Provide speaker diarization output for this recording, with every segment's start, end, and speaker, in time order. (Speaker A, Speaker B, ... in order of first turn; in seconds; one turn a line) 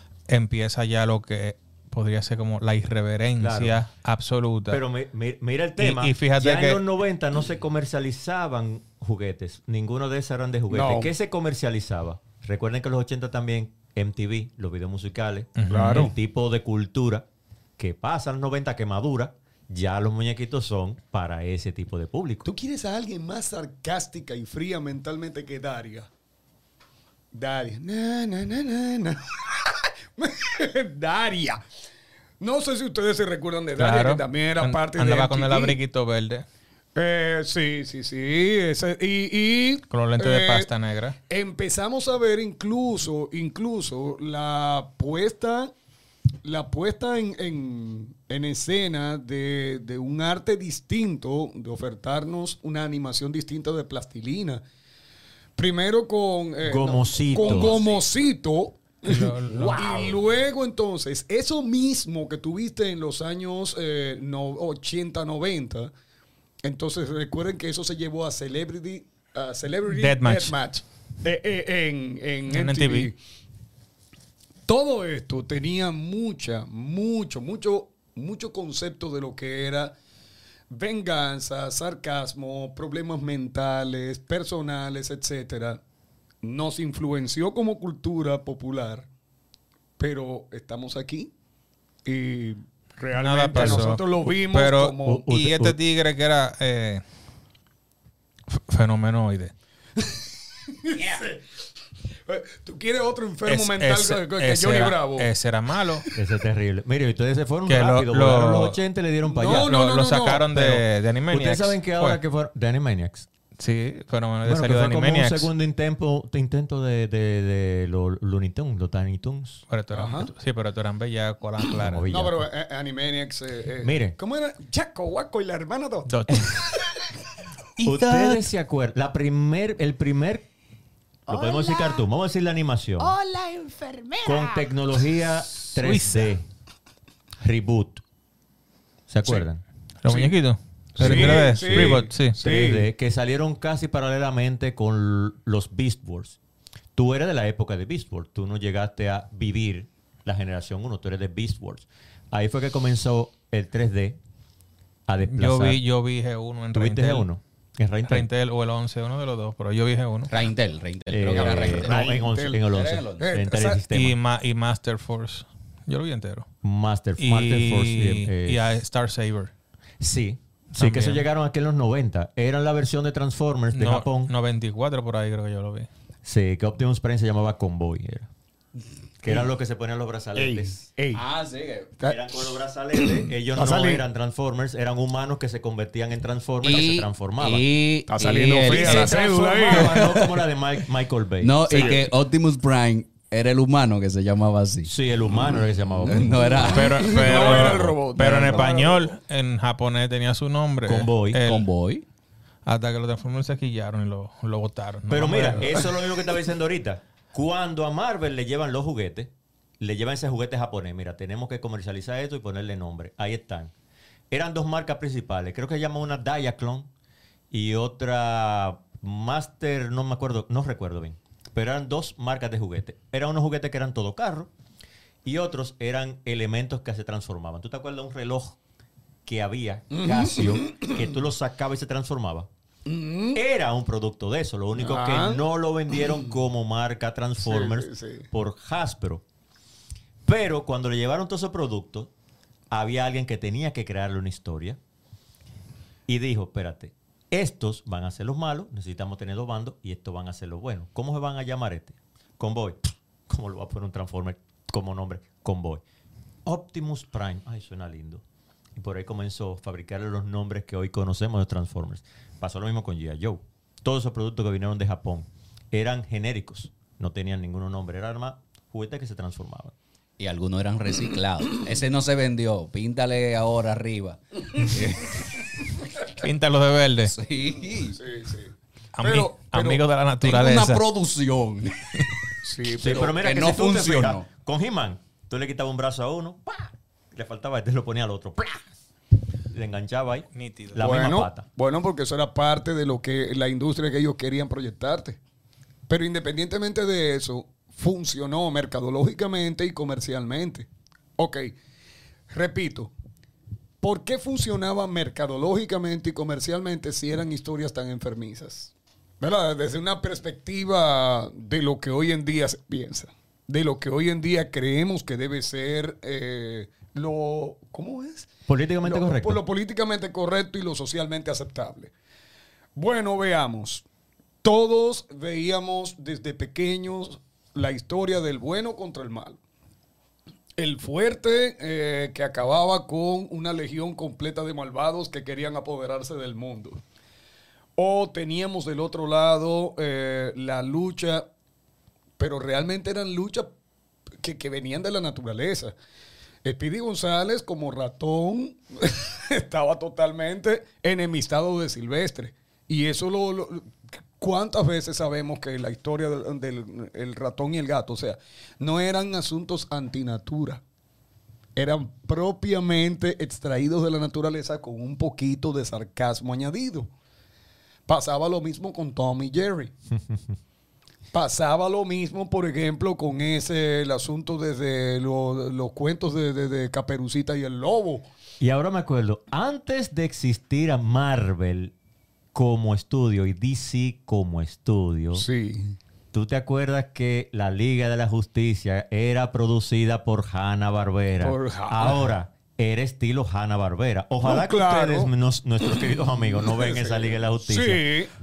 Speaker A: 0.3-4.8
Speaker B: 3.4-3.8
Speaker B: 4.7-17.2
Speaker A: 5.8-6.8
Speaker C: 10.7-11.1
Speaker A: 15.6-16.1
Speaker C: 15.7-16.1
Speaker B: 17.8-22.4
Speaker C: 22.4-26.1
Speaker C: 27.3-31.6
Speaker C: 32.4-35.8
Speaker A: 33.8-36.5
Speaker C: 37.0-40.7
Speaker A: 39.9-41.1
Speaker C: 41.3-45.7
Speaker C: 46.4-54.6
Speaker C: 55.6-65.9
Speaker B: 56.6-57.9
Speaker A: 59.0-60.1
Speaker C: 66.6-73.2
Speaker A: 69.9-70.5
Speaker A: 72.5-73.1
Speaker C: 74.7-79.9
Speaker C: 80.7-85.8
Speaker C: 86.4-89.1
Speaker C: 90.0-91.3
Speaker C: 92.0-95.3
Speaker A: 93.1-97.0
Speaker B: 93.5-93.8
Speaker B: 95.0-95.8
Speaker A: 98.5-99.5
Speaker C: 100.8-101.4
Speaker C: 102.3-105.3
Speaker A: 103.5-106.0
Speaker B: 106.1-109.7
Speaker A: 107.7-108.8
Speaker C: 109.2-110.5
Speaker A: 109.5-112.2
Speaker B: 110.5-113.3
Speaker A: 113.6-115.5
Speaker B: 114.4-119.6
Speaker A: 119.7-122.1
Speaker C: 119.9-120.3
Speaker B: 121.8-122.5
Speaker C: 122.0-127.1
Speaker B: 123.8-124.2
Speaker A: 126.0-126.7
Speaker B: 127.8-130.5
Speaker D: 127.8-128.4
Speaker B: 131.3-133.2
Speaker D: 131.3-132.0
Speaker D: 133.0-134.6
Speaker B: 134.2-136.5
Speaker A: 135.8-136.3
Speaker B: 137.4-138.0
Speaker B: 139.1-139.6
Speaker A: 140.0-142.4
Speaker C: 140.1-140.3
Speaker C: 140.9-142.9
Speaker B: 141.0-146.4
Speaker B: 146.9-154.2
Speaker B: 155.1-155.8
Speaker A: 155.3-157.2
Speaker B: 156.7-158.3
Speaker A: 158.1-160.3
Speaker E: 160.3-162.2
Speaker B: 161.1-164.2
Speaker C: 161.3-162.7
Speaker E: 162.7-163.3
Speaker C: 163.2-163.8
Speaker A: 163.9-166.5
Speaker B: 166.6-168.8
Speaker A: 167.2-169.5
Speaker B: 170.0-174.3
Speaker A: 170.8-171.2
Speaker A: 173.7-175.9
Speaker B: 176.2-178.3
Speaker B: 179.2-180.8
Speaker C: 180.3-181.2
Speaker E: 181.1-181.9
Speaker C: 182.0-184.0
Speaker B: 182.1-187.7
Speaker E: 186.6-189.2
Speaker C: 188.1-190.3
Speaker B: 188.6-192.0
Speaker A: 189.7-190.0
Speaker E: 191.4-194.9
Speaker C: 191.7-192.0
Speaker B: 194.8-197.9
Speaker C: 195.3-199.2
Speaker E: 196.1-197.4
Speaker A: 196.6-201.7
Speaker B: 200.8-201.4
Speaker E: 201.4-202.0
Speaker A: 202.7-205.9
Speaker B: 205.1-213.7
Speaker B: 214.3-216.9
Speaker B: 217.5-224.5
Speaker B: 225.2-228.6
Speaker B: 229.2-232.5
Speaker C: 229.9-231.1
Speaker C: 232.8-233.4
Speaker B: 233.3-239.2
Speaker C: 234.8-235.4
Speaker C: 237.4-238.3
Speaker B: 240.2-242.1
Speaker B: 242.7-244.8
Speaker B: 246.1-255.8
Speaker B: 256.4-258.2
Speaker B: 258.7-269.7
Speaker E: 270.2-275.4
Speaker A: 276.2-277.1
Speaker E: 277.1-278.0
Speaker C: 278.0-279.8
Speaker A: 279.0-280.8
Speaker E: 280.2-281.9
Speaker C: 282.4-283.2
Speaker B: 282.8-288.6
Speaker E: 282.9-284.2
Speaker B: 289.5-291.4
Speaker A: 290.3-290.8
Speaker C: 290.8-295.2
Speaker C: 295.9-301.5
Speaker C: 302.3-302.9
Speaker C: 303.8-318.3
Speaker B: 318.5-319.4
Speaker C: 318.8-321.9
Speaker C: 322.8-323.8
Speaker C: 324.4-329.4
Speaker C: 330.6-336.8
Speaker C: 337.8-341.2
Speaker C: 342.2-343.5
Speaker C: 344.2-345.7
Speaker C: 346.4-353.6
Speaker C: 354.2-360.6
Speaker C: 361.6-366.9
Speaker C: 367.9-369.7
Speaker B: 369.9-370.4
Speaker C: 371.1-378.1
Speaker B: 378.4-381.7
Speaker B: 382.3-385.3
Speaker C: 385.1-385.8
Speaker B: 386.1-397.8
Speaker C: 391.2-392.0
Speaker C: 394.2-395.1
Speaker C: 395.6-398.1